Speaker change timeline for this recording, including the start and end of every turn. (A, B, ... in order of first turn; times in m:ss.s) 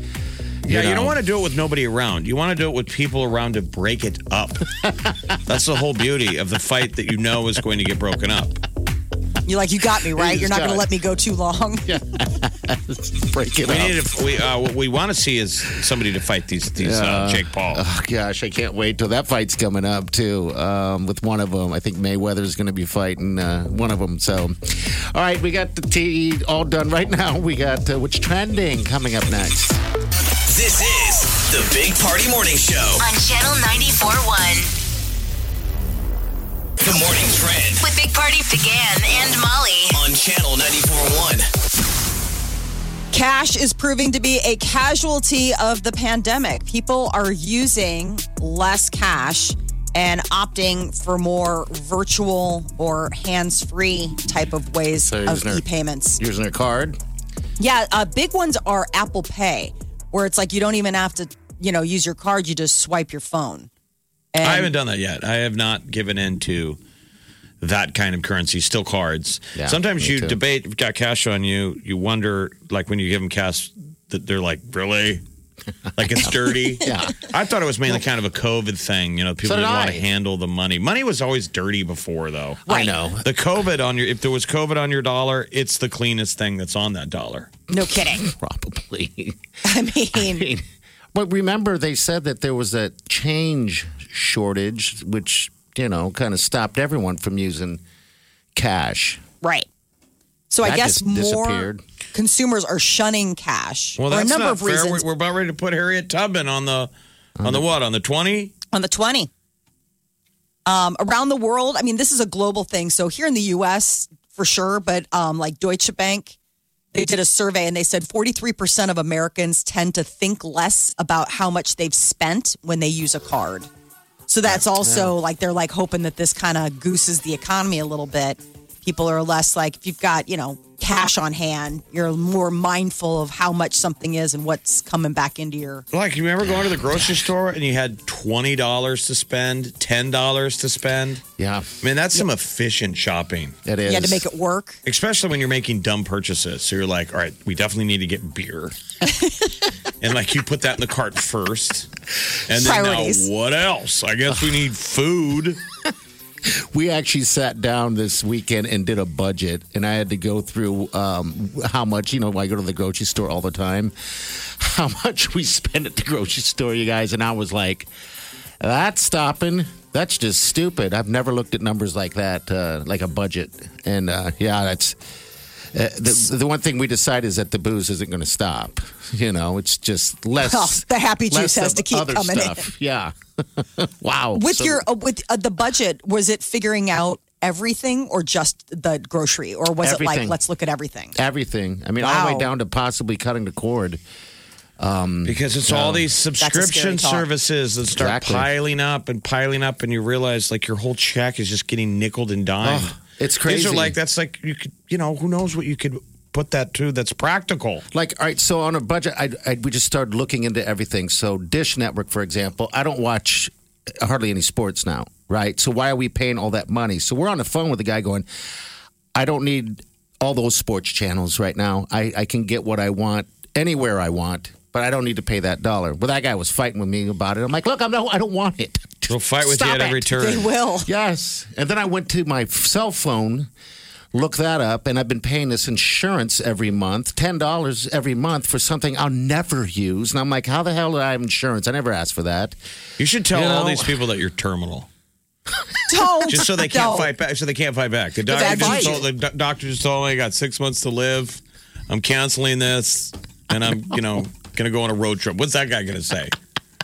0:00.6-0:01.2 A
0:00.6-0:04.7 B
0:05.5-0:08.6 B
0:09.5-0:11.9 C
0:10.1-0:10.9 A
0:11.9-0:14.0 A
0:13.7-0:17.8 B
0:16.8-0:29.8 A
0:30.5-0:33.0 D
0:33.0-0:34.7 E
0:36.8-0:37.8 D
0:37.8-0:40.0 E
0:39.9-0:41.4 D
0:43.1-0:56.2 C
0:55.0-0:55.6 A
0:56.2-0:57.0 A
0:57.6-1:03.7 C
1:04.3-1:04.7 C
1:04.4-1:06.8 B
1:07.6-1:15.2 B
1:09.6-1:10.4 A
1:16.0-1:22.6 B
1:16.8-1:17.2 A
1:19.4-1:20.1 A
1:22.7-1:23.3 A
1:22.7-1:22.9 C
1:23.2-1:27.5 B
1:27.7-1:28.2 C
1:27.9-1:29.4 A
1:29.6-1:30.5 C
1:30.1-1:37.8 A
1:38.6-1:39.2 A
1:39.4-1:39.7 C
1:40.5-1:45.0 C
1:40.6-1:41.8 A
1:44.0-1:46.9 B
1:47.4-1:47.7 A
1:47.4-1:48.5 B
1:48.7-1:49.3 C
1:50.7-1:56.4 C
1:56.9-2:03.7 C
2:04.3-2:15.8 C
2:04.4-2:05.1 A
2:15.9-2:21.2 B
2:16.4-2:17.2 A
2:21.4-2:21.7 A
2:21.8-2:23.6 B
2:23.6-2:24.3 A
2:23.9-2:24.8 C
2:24.9-2:28.8 B
2:30.0-2:31.9 B
2:32.5-2:35.6 B
2:32.6-2:33.3 C
2:36.5-2:47.9 A
2:48.6-2:55.0 A
2:55.7-3:04.8 A
3:00.4-3:02.7 C
3:04.3-3:11.2 C
3:09.8-3:10.4 A
3:11.2-3:14.0 A
3:12.0-3:12.5 C
3:14.8-3:16.1 A
3:15.2-3:27.8 B
3:16.4-3:17.3 C
3:17.9-3:18.5 A
3:22.6-3:24.0 A
3:27.9-3:38.3 A
3:39.2-3:50.1 A
3:49.1-3:50.5 B
3:50.1-3:50.9 C
3:50.8-3:53.5 A
3:54.1-4:02.6 A
4:03.0-4:04.9 B
4:03.3-4:04.0 A
4:05.9-4:07.1 C
4:06.3-4:16.3 B
4:08.3-4:09.1 C
4:08.3-4:09.1 A